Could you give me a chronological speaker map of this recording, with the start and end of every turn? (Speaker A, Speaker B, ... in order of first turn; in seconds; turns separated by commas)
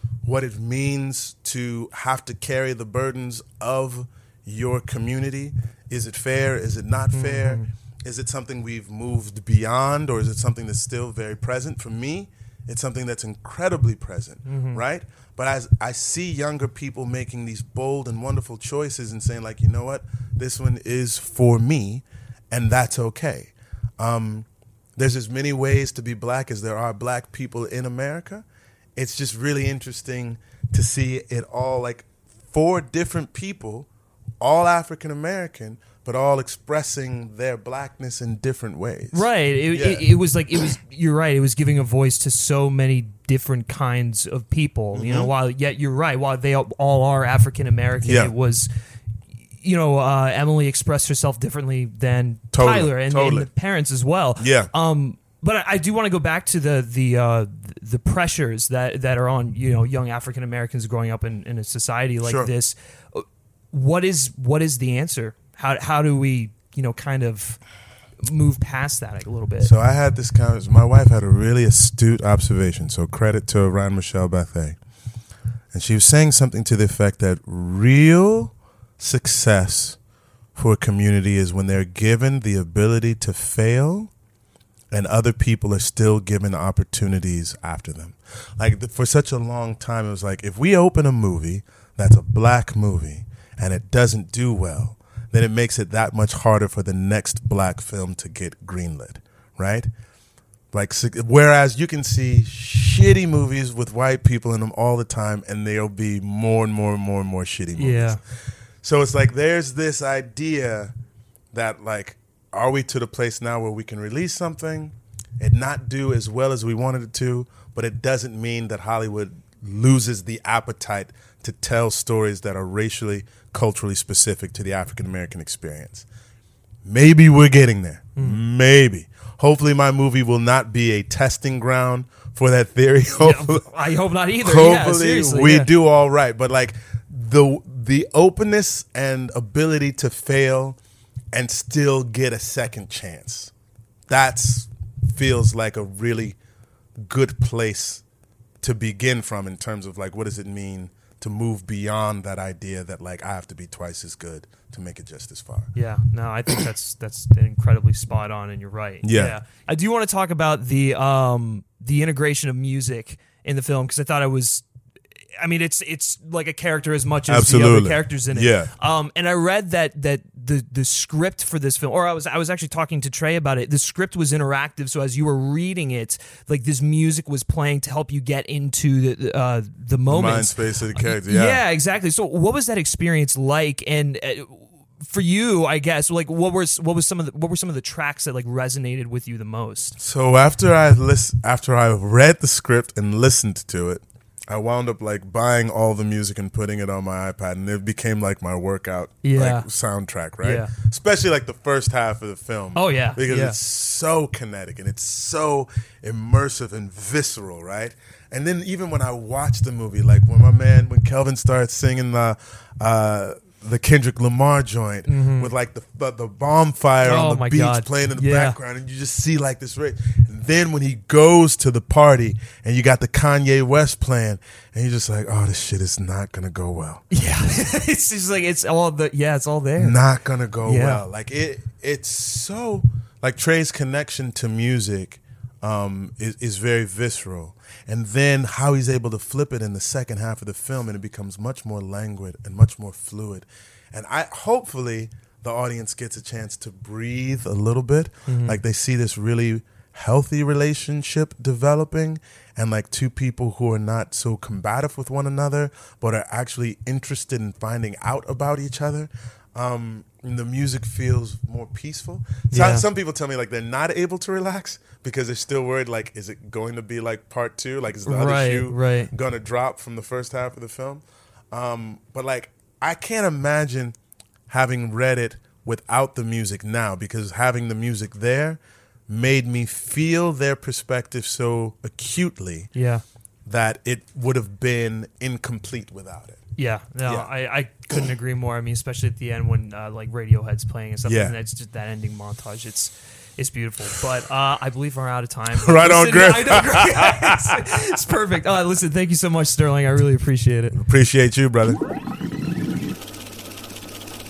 Speaker A: 0.2-28.4, Speaker B: 7.1-7.7, Speaker B: 14.4-14.8, Speaker A: 28.9-33.9, Speaker A: 34.4-40.1, Speaker B: 39.1-48.7, Speaker A: 44.9-45.3, Speaker A: 48.0-48.3, Speaker B: 49.6-67.6, Speaker A: 52.5-53.5, Speaker A: 54.4-54.7, Speaker A: 62.2-62.5, Speaker B: 68.2-69.7, Speaker A: 69.6-74.8, Speaker A: 75.7-80.0, Speaker A: 80.5-84.1, Speaker A: 84.9-99.9, Speaker A: 100.7-108.2, Speaker B: 107.8-108.2, Speaker A: 108.8-110.9, Speaker A: 111.5-126.0, Speaker A: 126.8-133.7, Speaker B: 133.2-135.7, Speaker A: 134.4-140.8, Speaker A: 141.3-143.5, Speaker A: 144.1-146.4, Speaker A: 146.9-148.0, Speaker A: 148.6-155.7, Speaker B: 155.7-164.6, Speaker A: 159.0-159.4, Speaker B: 165.4-190.0, Speaker A: 167.3-168.7, Speaker A: 180.1-181.6, Speaker A: 190.0-227.0, Speaker B: 199.2-199.7, Speaker B: 200.4-200.7, Speaker B: 202.7-203.6, Speaker B: 215.1-215.5, Speaker B: 217.0-218.6, Speaker B: 227.1-230.0, Speaker A: 229.8-273.9, Speaker B: 230.6-231.0, Speaker B: 248.3-248.6, Speaker B: 262.5-262.9, Speaker B: 268.0-269.1, Speaker A: 274.5-282.7, Speaker B: 282.7-283.0, Speaker A: 283.4-286.4, Speaker B: 286.6-300.8, Speaker A: 291.0-291.3, Speaker A: 295.5-297.6, Speaker A: 300.7-301.8